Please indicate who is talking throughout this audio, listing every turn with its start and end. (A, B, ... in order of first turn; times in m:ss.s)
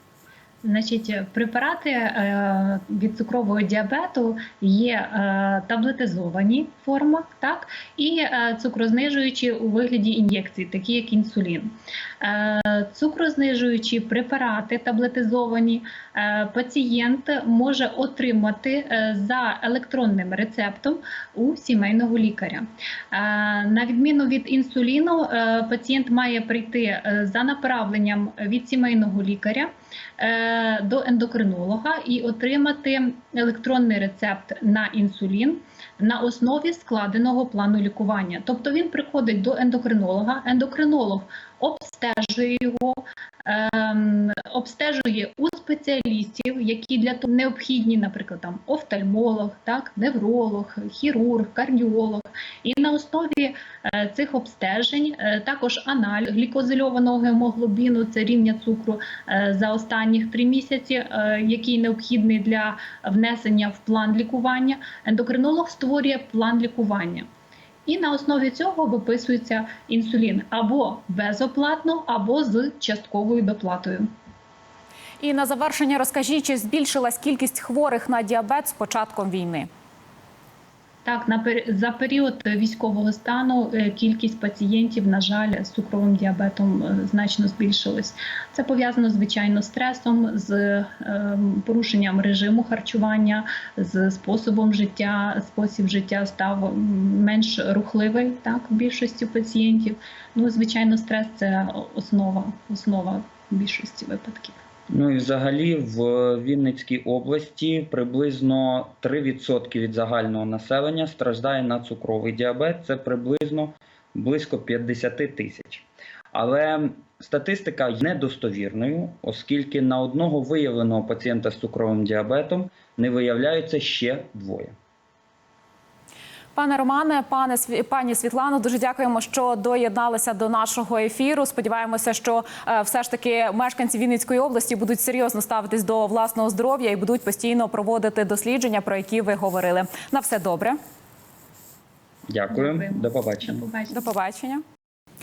0:00.6-1:07.3 A
1:07.9-1:14.1 A
1:15.2-1:19.7 B
1:21.0-1:44.6 A
1:44.9-2:04.8 C
2:06.6-2:20.8 B
2:22.3-2:23.6 C
2:22.5-2:24.1 A
2:23.9-2:24.6 B